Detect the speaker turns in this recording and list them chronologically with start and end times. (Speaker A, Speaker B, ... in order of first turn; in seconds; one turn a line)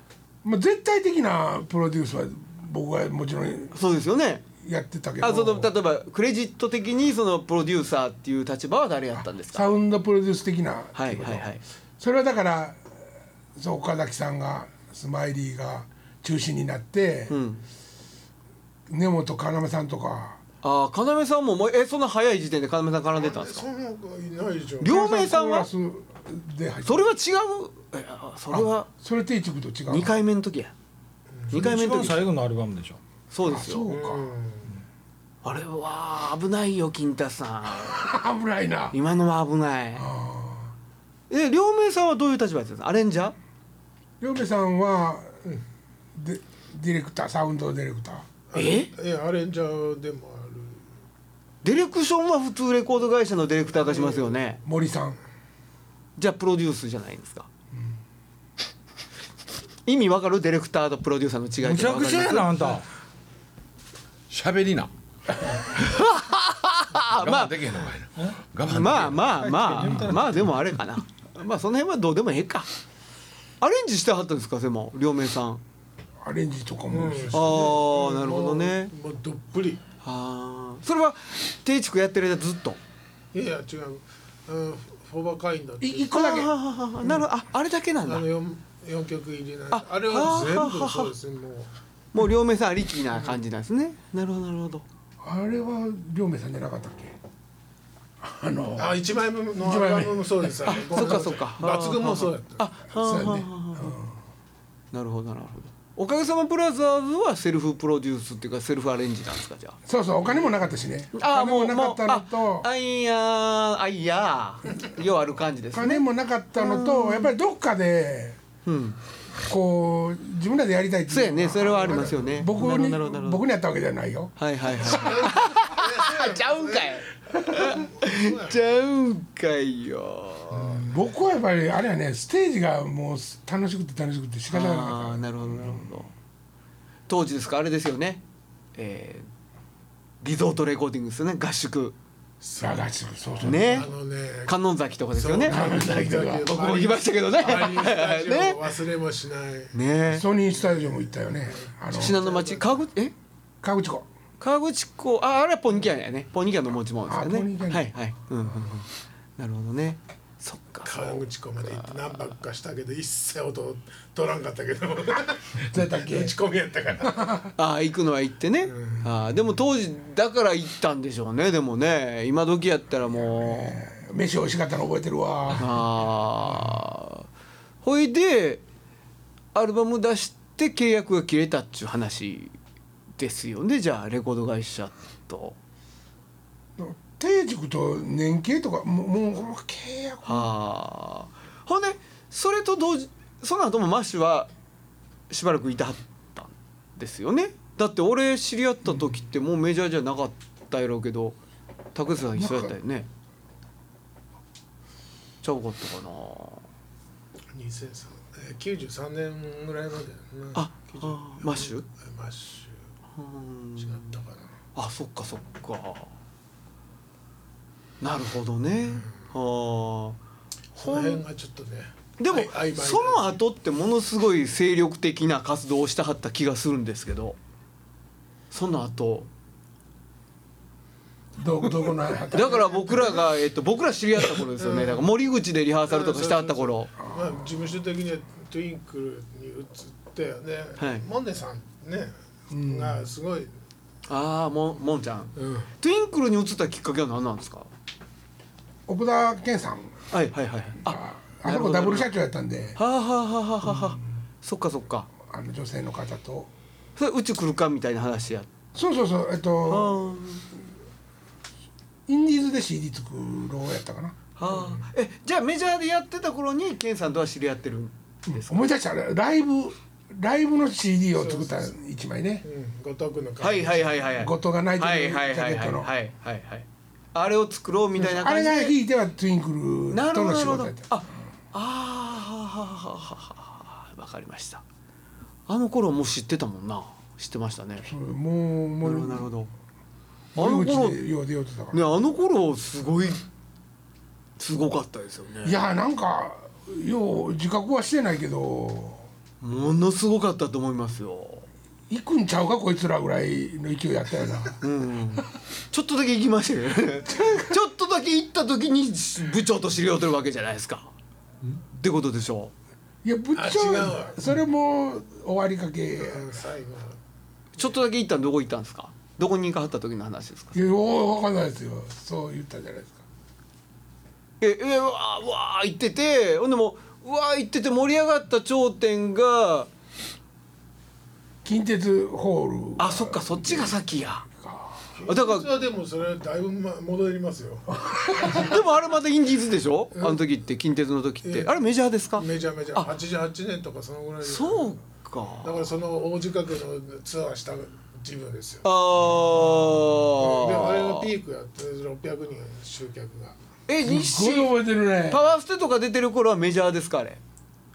Speaker A: 0.4-3.8
Speaker B: 3.7-4.4
Speaker A: 4.6-5.7
Speaker B: 5.2-9.7
Speaker A: 9.2-12.8
Speaker B: 10.9-11.6
Speaker A: 13.5-17.3
Speaker B: 17.3-17.6
Speaker A: 18.9-20.4
Speaker B: 20.6-23.6
Speaker C: 23.1-25.0
Speaker B: 24.8-25.7
Speaker A: 24.8-27.1
Speaker B: 26.8-28.9
Speaker A: 28.5-30.1
Speaker B: 29.9-30.7
Speaker C: 31.3-31.6
Speaker B: 31.5-32.2
Speaker D: 31.5-33.0
Speaker A: 31.6-32.0
Speaker B: 33.3-33.9
Speaker A: 33.4-34.3
Speaker C: 33.8-34.7
Speaker B: 35.4-38.0
Speaker A: 37.8-39.0
Speaker B: 38.9-40.0
Speaker A: 39.9-40.7
Speaker B: 41.3-43.3
Speaker A: 44.2-45.3
Speaker A: 46.1-48.2
Speaker C: 48.5-50.8
Speaker B: 48.5-48.9
Speaker B: 51.6-54.6
Speaker C: 53.8-54.3
Speaker A: 54.6-55.2
Speaker B: 56.2-57.5
Speaker B: 59.9-62.8
Speaker D: 61.6-62.8
Speaker E: 64.3-64.9
Speaker B: 65.7-67.5
Speaker E: 67.0-69.3
Speaker B: 68.7-72.7
Speaker D: 68.9-70.7
Speaker B: 73.6-75.6
Speaker A: 76.2-77.8
Speaker C: 76.9-79.8
Speaker B: 77.3-78.9
Speaker B: 80.0-82.8
Speaker C: 83.3-86.1
Speaker A: 85.8-86.5
Speaker B: 86.1-88.2
Speaker C: 88.0-91.7
Speaker B: 89.7-91.1
Speaker B: 92.1-94.8
Speaker A: 95.2-97.2
Speaker A: 98.2-99.0
Speaker C: 98.8-102.6
Speaker A: 99.6-101.2
Speaker B: 100.7-103.9
Speaker A: 102.9-104.2
Speaker B: 104.9-109.8
Speaker A: 109.9-112.7
Speaker B: 111.1-117.3
Speaker A: 115.7-118.4
Speaker B: 118.6-119.0
Speaker A: 119.5-125.3
Speaker B: 121.1-123.4
Speaker B: 124.4-130.8
Speaker C: 124.8-128.6
Speaker A: 130.6-135.9
Speaker B: 134.5-136.1
Speaker B: 137.1-138.2
Speaker B: 138.8-139.3
Speaker B: 140.2-141.9
Speaker C: 142.4-144.5
Speaker A: 142.6-143.9
Speaker B: 143.4-143.9
Speaker B: 144.4-145.8
Speaker C: 145.1-149.7
Speaker A: 145.4-146.6
Speaker B: 146.4-148.6
Speaker B: 149.7-150.2
Speaker A: 150.1-152.2
Speaker C: 150.5-152.8
Speaker B: 151.9-153.1
Speaker A: 153.6-154.1
Speaker B: 154.4-162.2
Speaker A: 157.1-157.9
Speaker C: 160.8-167.2
Speaker A: 165.6-166.3
Speaker A: 167.0-167.5
Speaker B: 167.6-173.8
Speaker C: 168.6-169.1
Speaker A: 173.1-175.8
Speaker B: 175.5-177.3
Speaker A: 176.5-176.7
Speaker B: 177.8-178.6
Speaker B: 179.5-182.5
Speaker B: 183.2-185.6
Speaker A: 186.8-190.5
Speaker B: 190.2-194.5
Speaker B: 195.3-201.4
Speaker B: 201.9-203.1
Speaker A: 202.3-202.7
Speaker B: 205.4-206.6
Speaker C: 207.5-212.8
Speaker B: 210.5-211.8
Speaker B: 213.2-214.2
Speaker C: 213.8-214.5
Speaker B: 214.7-216.1
Speaker B: 218.0-220.2
Speaker C: 220.8-223.4
Speaker B: 220.8-221.2
Speaker B: 222.2-227.4
Speaker B: 228.5-229.3
Speaker A: 231.4-233.2
Speaker B: 232.3-236.9
Speaker C: 234.6-235.1
Speaker C: 235.9-243.5
Speaker A: 237.0-237.5
Speaker B: 240.8-241.0
Speaker A: 242.5-243.0
Speaker B: 244.1-247.7
Speaker C: 245.3-245.7
Speaker A: 248.9-249.9
Speaker B: 250.1-252.1
Speaker A: 250.8-252.8
Speaker B: 252.8-255.1
Speaker A: 253.6-254.0
Speaker A: 255.2-256.5
Speaker B: 257.0-258.5
Speaker A: 258.7-260.2
Speaker B: 259.7-260.4
Speaker A: 262.1-264.2
Speaker B: 264.4-268.7
Speaker C: 264.5-264.8
Speaker A: 268.3-272.4
Speaker C: 271.1-271.7
Speaker C: 272.4-274.1
Speaker B: 273.4-278.8
Speaker A: 274.1-275.9
Speaker A: 277.9-280.9
Speaker B: 279.9-284.6
Speaker B: 285.5-287.9
Speaker A: 287.8-289.3
Speaker B: 288.8-289.5
Speaker A: 290.3-291.8
Speaker B: 290.4-291.0
Speaker B: 291.7-293.2
Speaker B: 294.4-295.6
Speaker A: 295.4-299.1
Speaker B: 299.4-301.4
Speaker A: 301.9-304.6
Speaker B: 304.6-310.9
Speaker B: 311.7-312.5
Speaker A: 313.0-316.3
Speaker C: 313.4-314.2
Speaker C: 316.0-317.0
Speaker B: 317.6-320.6
Speaker A: 320.5-323.0
Speaker B: 324.4-329.7
Speaker A: 331.4-334.9
Speaker B: 332.8-334.2
Speaker C: 335.0-338.6
Speaker B: 335.1-335.5
Speaker A: 337.8-338.4
Speaker B: 338.3-342.9
Speaker C: 339.9-340.2
Speaker C: 341.2-341.5
Speaker C: 342.1-344.7
Speaker B: 344.2-345.6
Speaker C: 345.4-348.6
Speaker B: 348.6-351.1
Speaker C: 350.1-353.4
Speaker B: 353.7-357.2
Speaker A: 353.8-355.2